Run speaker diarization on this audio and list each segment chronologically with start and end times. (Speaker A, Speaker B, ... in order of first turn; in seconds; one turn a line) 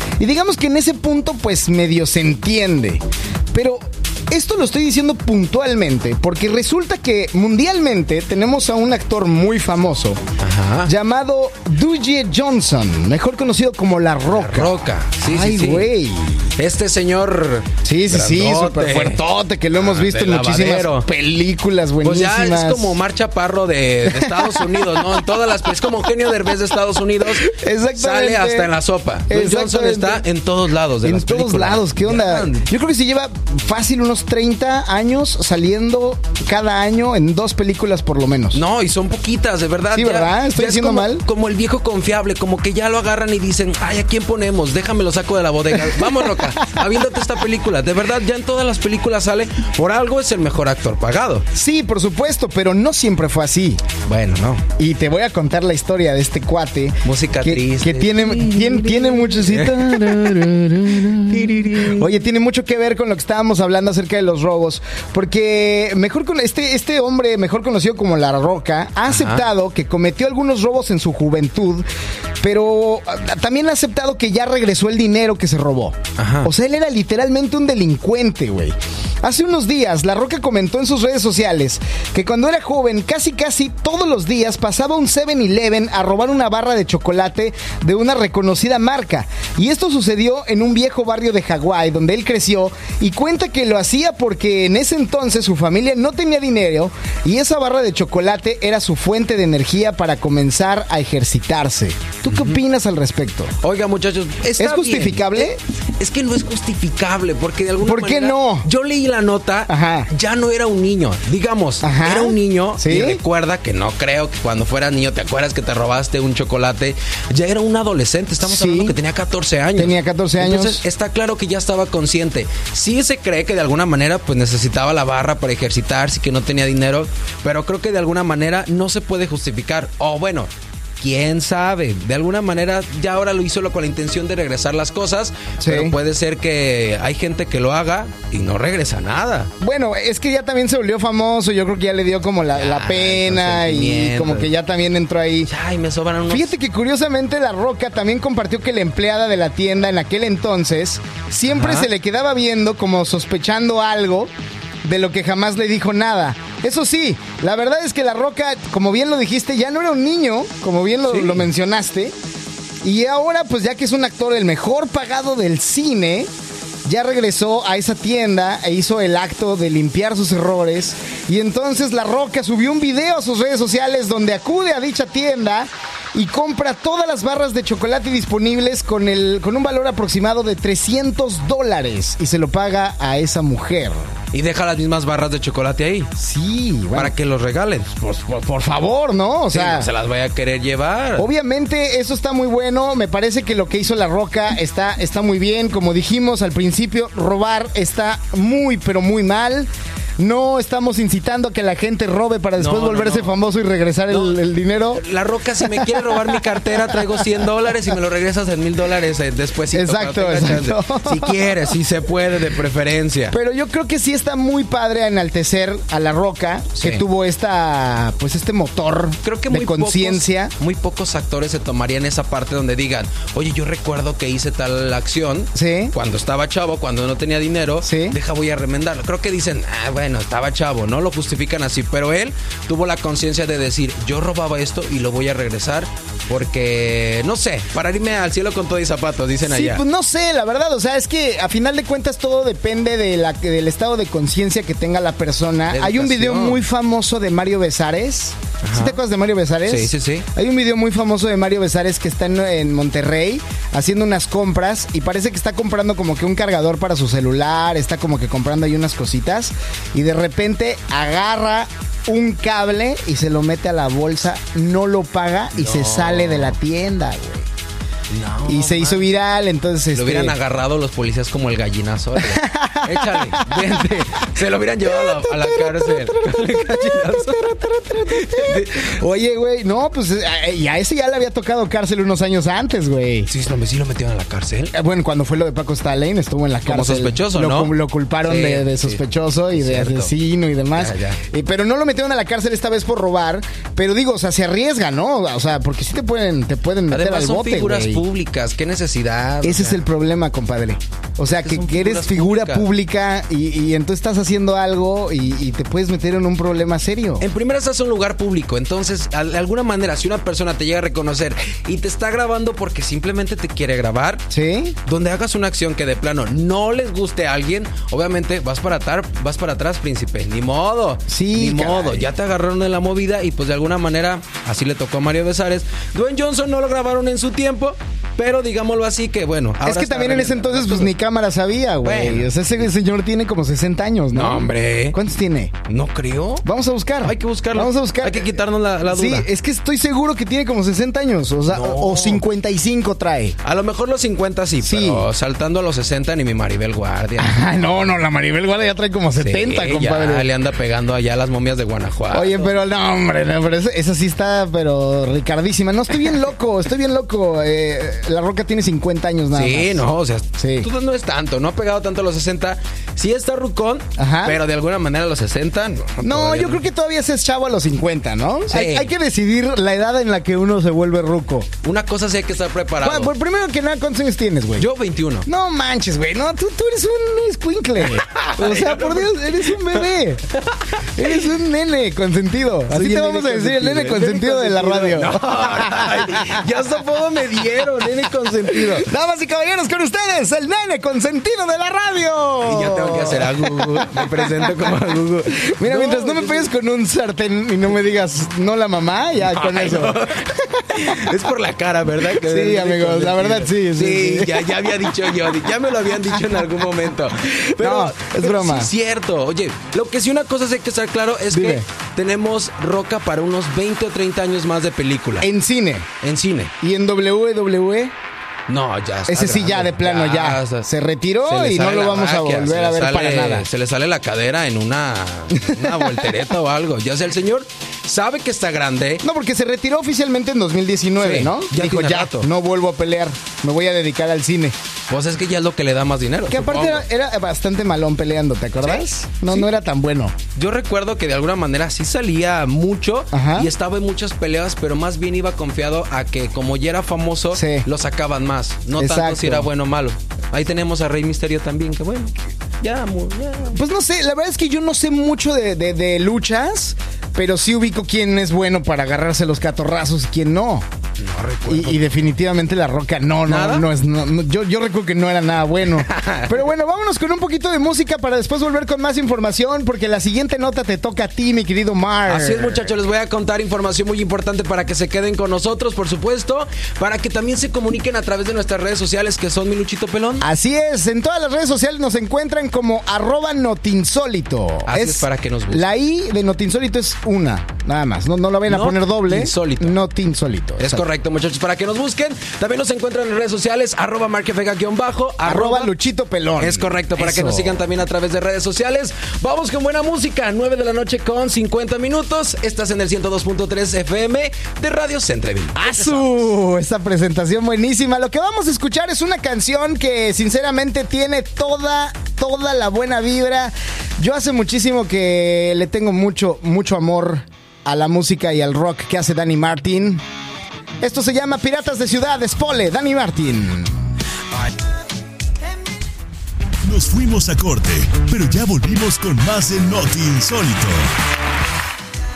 Speaker A: 0.2-10.2
Speaker B: 10.4-10.9
Speaker A: 10.8-16.5
Speaker B: 14.3-15.9
Speaker B: 16.6-19.2
Speaker A: 17.8-22.9
Speaker B: 19.7-21.1
Speaker B: 22.0-32.7
Speaker A: 24.1-25.7
Speaker A: 27.2-28.7
Speaker A: 29.3-30.2
Speaker A: 31.0-38.6
Speaker B: 38.5-51.5
Speaker A: 39.9-41.2
Speaker A: 45.7-47.0
Speaker A: 51.5-53.8
Speaker B: 54.0-54.6
Speaker A: 54.8-71.8
Speaker B: 57.0-62.1
Speaker B: 69.1-69.4
Speaker A: 72.4-103.5
Speaker B: 76.2-76.5
Speaker B: 102.3-102.6
Speaker B: 103.6-130.5
Speaker A: 104.6-105.6
Speaker A: 107.8-108.7
Speaker A: 109.7-110.1
Speaker A: 111.8-113.2
Speaker A: 118.4-119.0
Speaker A: 119.8-120.8
Speaker B: 131.0-139.5
Speaker A: 135.6-135.9
Speaker A: 139.6-145.5
Speaker B: 142.5-144.5
Speaker B: 145.5-146.5
Speaker A: 146.3-154.3
Speaker B: 151.5-151.9
Speaker A: 154.8-162.1
Speaker B: 161.1-161.4
Speaker A: 162.8-166.3
Speaker A: 166.8-184.0
Speaker B: 184.3-186.1
Speaker A: 186.2-187.1
Speaker B: 186.9-188.0
Speaker A: 188.0-189.9
Speaker B: 189.5-191.3
Speaker A: 191.2-205.0
Speaker B: 202.6-203.3
Speaker B: 204.1-204.4
Speaker B: 204.9-213.3
Speaker A: 205.6-207.2
Speaker A: 209.7-211.6
Speaker A: 213.3-220.5
Speaker B: 219.2-239.8
Speaker A: 225.5-225.9
Speaker A: 227.8-228.2
Speaker A: 239.4-267.5
Speaker B: 245.7-246.6
Speaker B: 248.6-249.0
Speaker B: 249.7-250.3
Speaker B: 265.6-266.5
Speaker B: 268.1-269.1
Speaker A: 268.4-270.4
Speaker B: 269.9-278.9
Speaker A: 272.2-274.0
Speaker A: 274.8-283.3
Speaker B: 283.3-284.7
Speaker A: 284.7-298.0
Speaker B: 286.6-287.7
Speaker B: 288.2-289.0
Speaker B: 289.5-290.1
Speaker B: 290.7-291.2
Speaker B: 296.9-299.8
Speaker A: 299.4-307.2
Speaker B: 301.4-302.7
Speaker B: 307.2-314.2
Speaker A: 314.3-314.8
Speaker B: 314.8-330.9
Speaker A: 321.1-322.1
Speaker A: 329.6-335.6
Speaker B: 331.8-332.3
Speaker B: 334.1-335.0
Speaker B: 335.6-336.4
Speaker A: 336.4-343.4
Speaker B: 337.0-339.3
Speaker B: 341.5-342.2
Speaker B: 343.4-347.4
Speaker A: 344.6-345.1
Speaker A: 347.2-350.3
Speaker B: 349.2-352.5
Speaker A: 352.1-359.8
Speaker B: 359.3-366.6
Speaker A: 360.4-360.7
Speaker A: 364.0-364.4
Speaker A: 366.0-371.5
Speaker B: 368.5-368.9
Speaker B: 371.6-373.1
Speaker A: 372.8-374.7
Speaker B: 374.6-375.3
Speaker A: 375.2-380.2
Speaker B: 377.9-381.2
Speaker A: 380.9-386.4
Speaker B: 382.7-388.9
Speaker A: 387.8-394.5
Speaker B: 392.4-396.5
Speaker A: 395.6-401.1
Speaker B: 399.3-415.3
Speaker A: 402.2-405.3
Speaker A: 407.6-408.7
Speaker A: 411.3-411.6
Speaker A: 415.2-415.9
Speaker B: 416.0-416.5
Speaker A: 416.6-417.9
Speaker B: 418.5-420.7
Speaker A: 419.1-423.5
Speaker B: 421.2-429.0
Speaker A: 425.3-426.1
Speaker A: 429.0-434.5
Speaker B: 431.0-432.3
Speaker B: 434.9-436.9
Speaker A: 436.3-440.1
Speaker B: 438.6-439.4
Speaker B: 440.3-453.6
Speaker A: 443.1-443.5
Speaker A: 447.3-447.6
Speaker A: 448.8-449.5
Speaker A: 453.5-460.6
Speaker B: 461.0-461.8
Speaker A: 461.5-472.7
Speaker B: 463.3-463.7
Speaker B: 465.7-466.4
Speaker B: 472.1-480.2
Speaker A: 480.2-490.9
Speaker B: 484.7-485.7
Speaker B: 488.5-489.8
Speaker B: 490.6-495.7
Speaker A: 495.2-497.6
Speaker B: 496.4-506.0
Speaker A: 505.5-520.0
Speaker A: 520.8-523.8
Speaker C: 526.6-530.9